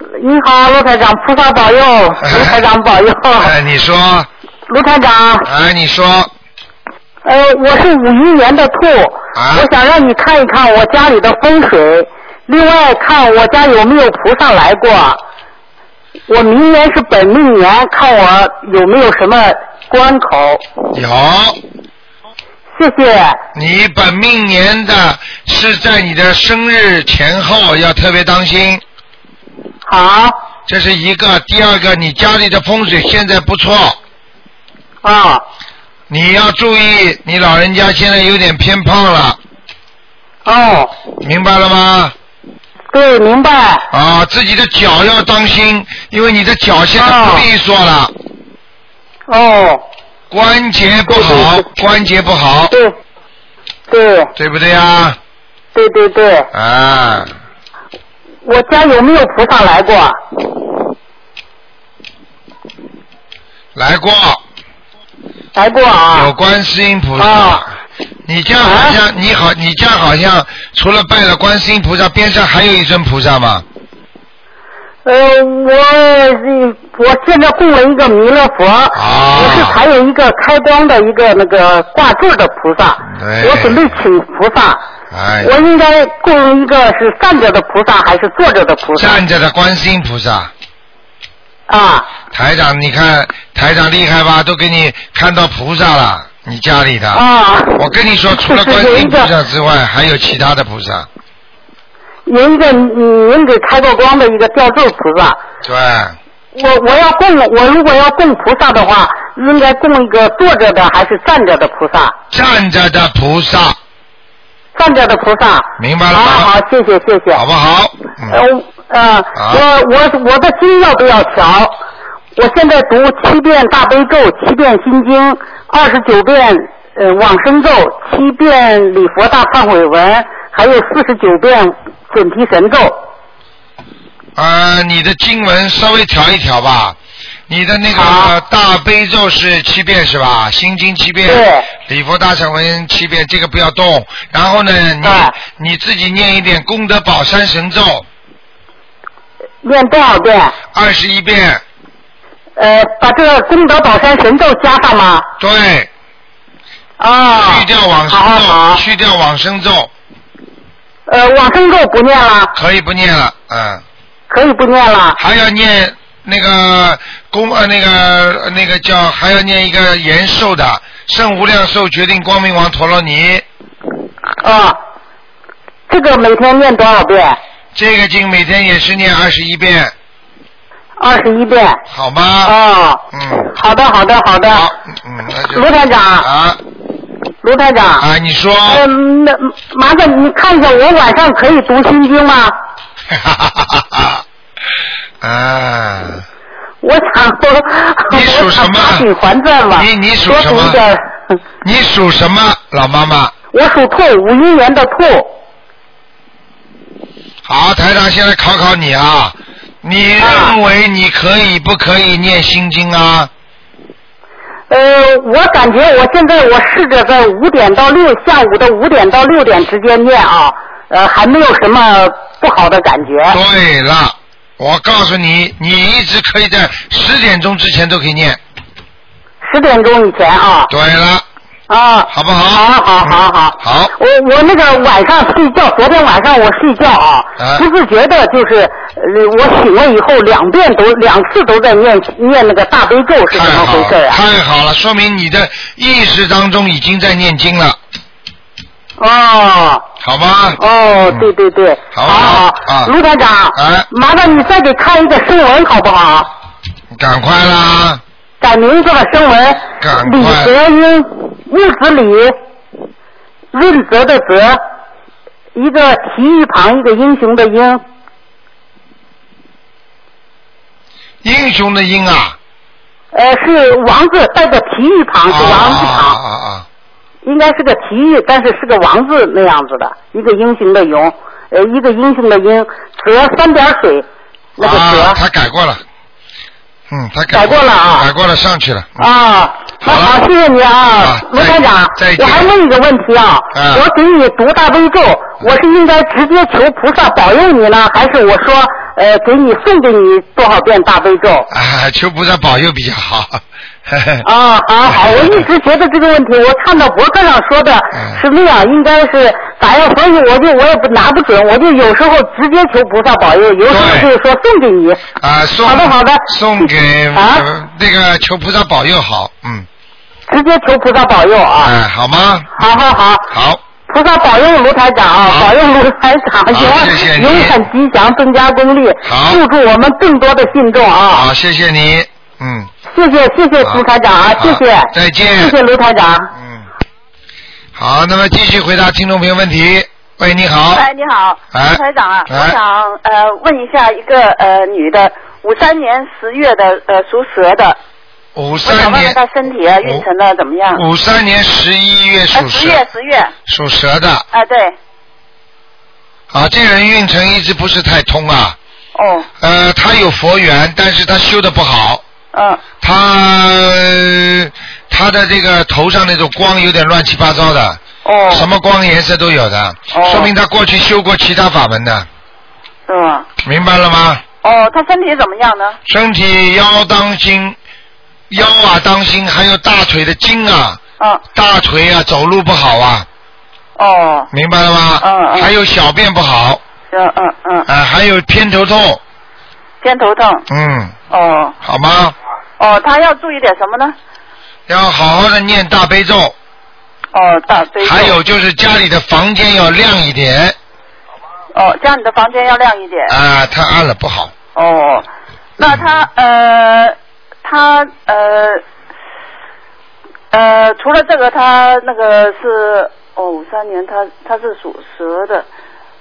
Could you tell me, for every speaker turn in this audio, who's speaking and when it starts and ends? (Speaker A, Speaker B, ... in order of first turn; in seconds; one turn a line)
Speaker A: 0.2-3.5
Speaker B: 2.2-2.6
Speaker B: 3.4-4.3
Speaker A: 4.7-5.5
Speaker B: 5.4-6.3
Speaker A: 7.2-15.2
Speaker B: 9.3-9.7
Speaker A: 16.3-20.6
Speaker B: 20.9-21.6
Speaker A: 22.8-23.4
Speaker B: 23.6-28.8
Speaker A: 29.9-30.4
Speaker B: 30.7-34.0
Speaker A: 35.0-35.4
Speaker B: 36.1-39.4
Speaker A: 40.5-40.9
Speaker B: 41.2-42.1
Speaker A: 42.9-43.9
Speaker B: 43.9-48.1
Speaker A: 47.0-47.5
Speaker A: 49.3-49.8
Speaker B: 50.3-52.7
Speaker A: 51.1-51.6
Speaker A: 53.9-54.3
Speaker B: 54.4-55.2
Speaker A: 55.7-56.5
Speaker B: 56.5-57.3
Speaker A: 58.4-60.2
Speaker B: 63.8-64.4
Speaker A: 65.5-66.3
Speaker B: 66.1-67.7
Speaker A: 67.2-67.7
Speaker B: 68.3-73.7
Speaker A: 68.6-69.0
Speaker A: 75.0-84.8
Speaker B: 78.9-79.8
Speaker B: 83.0-83.9
Speaker B: 85.1-85.5
Speaker A: 85.4-89.2
Speaker B: 89.0-90.5
Speaker A: 91.7-92.1
Speaker B: 92.3-97.2
Speaker A: 97.1-99.3
Speaker B: 97.8-101.1
Speaker A: 102.3-105.4
Speaker B: 105.6-106.2
Speaker A: 106.5-112.2
Speaker B: 112.3-113.8
Speaker A: 114.8-117.4
Speaker B: 115.8-116.5
Speaker B: 117.3-118.4
Speaker A: 118.3-121.8
Speaker B: 119.3-119.6
Speaker A: 122.4-133.0
Speaker B: 134.4-137.0
Speaker B: 137.5-148.1
Speaker A: 137.9-138.3
Speaker A: 141.3-141.7
Speaker A: 145.0-145.3
Speaker A: 149.6-150.6
Speaker B: 150.7-151.6
Speaker A: 152.6-155.3
Speaker B: 155.4-155.9
Speaker A: 157.0-158.8
Speaker B: 157.4-159.9
Speaker A: 161.1-162.5
Speaker B: 162.6-163.8
Speaker A: 164.3-165.2
Speaker B: 165.2-173.4
Speaker A: 174.4-174.8
Speaker A: 175.9-177.4
Speaker B: 177.8-179.9
Speaker A: 181.0-181.8
Speaker B: 181.9-182.5
Speaker A: 182.4-184.7
Speaker B: 183.1-183.5
Speaker B: 184.5-185.7
Speaker A: 185.5-186.3
Speaker B: 186.2-186.6
Speaker A: 187.4-188.1
Speaker B: 188.0-188.8
Speaker A: 188.7-192.6
Speaker B: 193.1-194.2
Speaker B: 195.2-196.2
Speaker A: 196.8-201.4
Speaker B: 198.1-199.1
Speaker B: 199.7-200.8
Speaker B: 201.6-203.3
Speaker A: 203.5-205.3
Speaker B: 207.4-213.3
Speaker A: 210.2-210.6
Speaker A: 214.7-223.4
Speaker B: 223.3-228.4
Speaker A: 229.4-230.7
Speaker B: 230.7-231.2
Speaker A: 231.7-244.2
Speaker B: 232.1-233.9
Speaker B: 237.4-237.7
Speaker B: 243.3-247.8
Speaker A: 249.0-249.8
Speaker B: 250.0-251.3
Speaker A: 250.6-256.3
Speaker B: 251.9-252.9
Speaker B: 253.6-253.9
Speaker B: 256.9-258.0
Speaker A: 258.4-262.4
Speaker B: 259.8-260.6
Speaker A: 263.5-264.6
Speaker A: 265.6-267.8
Speaker B: 271.2-272.4
Speaker A: 273.1-276.2
Speaker B: 275.3-276.7
Speaker A: 277.2-284.1
Speaker A: 284.6-285.2
Speaker B: 284.6-285.8
Speaker B: 286.9-289.1
Speaker A: 287.3-288.1
Speaker A: 289.0-301.5
Speaker B: 289.8-290.2
Speaker B: 291.0-292.5
Speaker B: 293.5-293.9
Speaker B: 301.5-304.3
Speaker A: 304.2-315.0
Speaker B: 304.9-305.4
Speaker B: 307.9-308.2
Speaker B: 313.7-314.1
Speaker B: 315.2-319.7
Speaker A: 315.6-317.5
Speaker A: 320.3-321.7
Speaker B: 321.6-322.5
Speaker A: 322.6-323.3
Speaker B: 323.3-323.6
Speaker A: 323.9-331.3
Speaker B: 325.2-325.5
Speaker B: 326.5-327.6
Speaker B: 329.1-329.4
Speaker B: 331.1-332.7
Speaker A: 332.9-336.3
Speaker B: 334.4-335.6
Speaker B: 336.3-336.7
Speaker B: 337.8-340.9
Speaker C: 340.7-347.8
Speaker B: 341.5-342.6
Speaker B: 348.4-349.2
Speaker C: 348.6-350.8
Speaker B: 350.7-352.8
Speaker C: 352.3-353.3
Speaker B: 353.5-354.3
Speaker C: 354.3-354.8
Speaker B: 356.3-358.6
Speaker C: 358.9-359.3
Speaker B: 359.4-362.0
Speaker C: 362.3-362.6
Speaker B: 362.8-372.1
Speaker C: 368.0-368.5
Speaker C: 369.9-370.3
Speaker C: 372.9-373.3
Speaker B: 373.4-374.2
Speaker C: 374.4-375.8
Speaker B: 375.9-377.6
Speaker B: 378.3-380.8
Speaker B: 381.3-383.1
Speaker C: 383.8-384.3
Speaker B: 384.3-386.6
Speaker C: 385.0-385.5
Speaker C: 386.9-387.7
Speaker B: 387.7-389.0
Speaker C: 389.8-390.4
Speaker B: 390.5-391.0
Speaker C: 391.1-391.6
Speaker B: 391.6-392.2
Speaker C: 392.6-394.0
Speaker B: 394.7-396.4
Speaker C: 397.1-398.2
Speaker B: 397.8-400.6
Speaker C: 401.5-403.2
Speaker B: 403.1-404.3
Speaker C: 404.6-408.6
Speaker C: 410.3-415.5